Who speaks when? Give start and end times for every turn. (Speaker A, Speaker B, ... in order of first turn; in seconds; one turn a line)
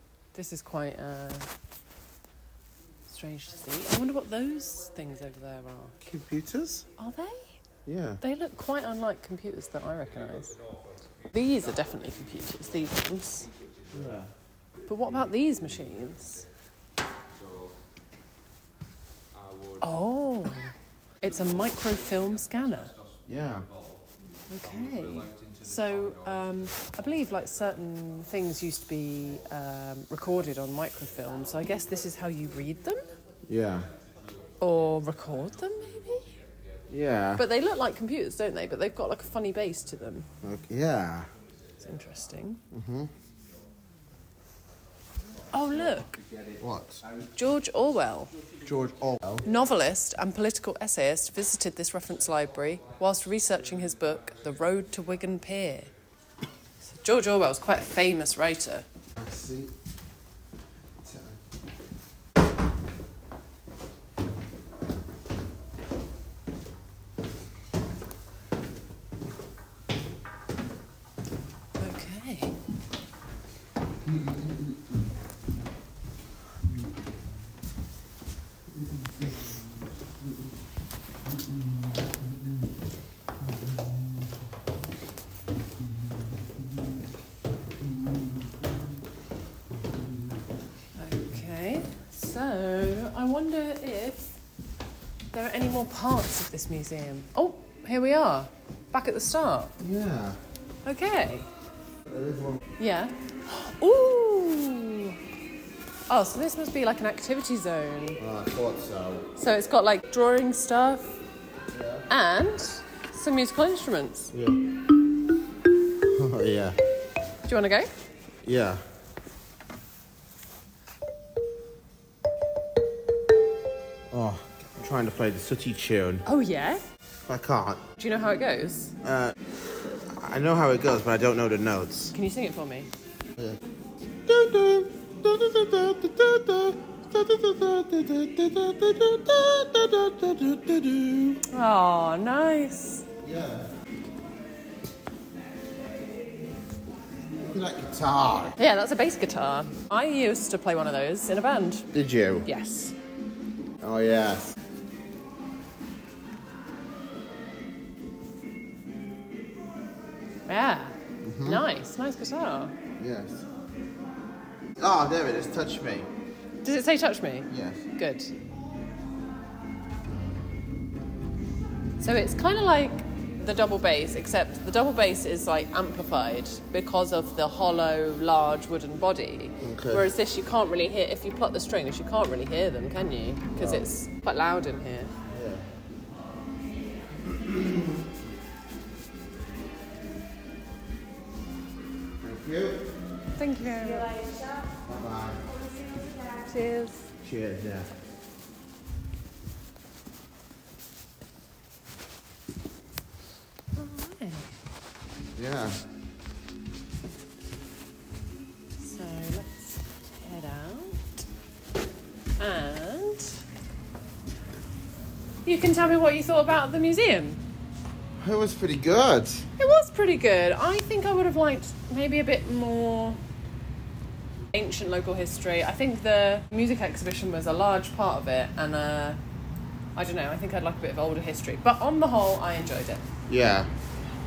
Speaker A: 0.3-1.5
Speaker A: 3.1-6.0
Speaker B: 6.0-6.8
Speaker A: 7.0-7.5
Speaker B: 7.8-8.2
Speaker A: 8.2-10.6
Speaker A: 11.3-13.5
Speaker B: 13.9-14.3
Speaker A: 14.9-16.4
Speaker A: 19.8-22.9
Speaker B: 23.3-23.7
Speaker A: 24.5-33.0
Speaker B: 33.5-33.9
Speaker A: 34.6-36.4
Speaker B: 36.9-37.4
Speaker A: 37.4-40.3
Speaker B: 40.4-41.3
Speaker A: 41.8-42.6
Speaker B: 42.7-43.1
Speaker A: 45.5-46.2
Speaker B: 46.6-47.0
Speaker A: 47.4-48.3
Speaker B: 48.6-49.4
Speaker A: 49.4-55.9
Speaker A: 56.9-58.8
Speaker B: 59.2-59.7
Speaker B: 61.0-61.4
Speaker A: 71.8-72.5
Speaker A: 91.0-94.3
Speaker A: 95.3-99.7
Speaker B: 99.8-100.4
Speaker A: 100.8-101.5
Speaker B: 102.1-102.6
Speaker A: 102.8-105.2
Speaker A: 106.1-108.2
Speaker B: 108.2-109.3
Speaker A: 109.3-111.2
Speaker B: 111.7-112.1
Speaker A: 112.1-114.3
Speaker B: 114.3-114.6
Speaker B: 116.1-116.8
Speaker A: 117.4-117.9
Speaker B: 118.4-118.8
Speaker B: 124.1-126.2
Speaker A: 126.2-126.8
Speaker B: 127.2-127.8
Speaker A: 128.0-128.9
Speaker B: 129.0-129.3
Speaker B: 130.1-132.1
Speaker A: 132.1-132.9
Speaker B: 134.2-141.4
Speaker A: 141.5-143.1
Speaker B: 143.2-143.7
Speaker B: 147.4-148.6
Speaker A: 148.6-151.9
Speaker B: 151.9-152.5
Speaker A: 152.4-152.9
Speaker B: 153.8-154.5
Speaker A: 160.5-162.7
Speaker B: 161.2-161.6
Speaker B: 163.0-163.4
Speaker B: 164.8-166.1
Speaker A: 166.6-168.3
Speaker B: 167.5-167.8
Speaker A: 172.0-185.1
Speaker B: 179.6-180.1
Speaker B: 183.6-183.8
Speaker B: 185.3-185.7
Speaker B: 187.3-187.9
Speaker B: 192.2-192.8
Speaker A: 193.4-194.5
Speaker B: 194.8-195.4
Speaker A: 195.5-197.1
Speaker B: 197.2-197.9
Speaker A: 203.7-204.5
Speaker B: 205.3-205.8
Speaker A: 208.8-211.2
Speaker A: 212.4-213.4
Speaker A: 215.4-217.4
Speaker B: 218.2-219.5
Speaker A: 219.6-223.2
Speaker A: 224.5-229.2
Speaker A: 229.9-233.1
Speaker B: 233.3-233.7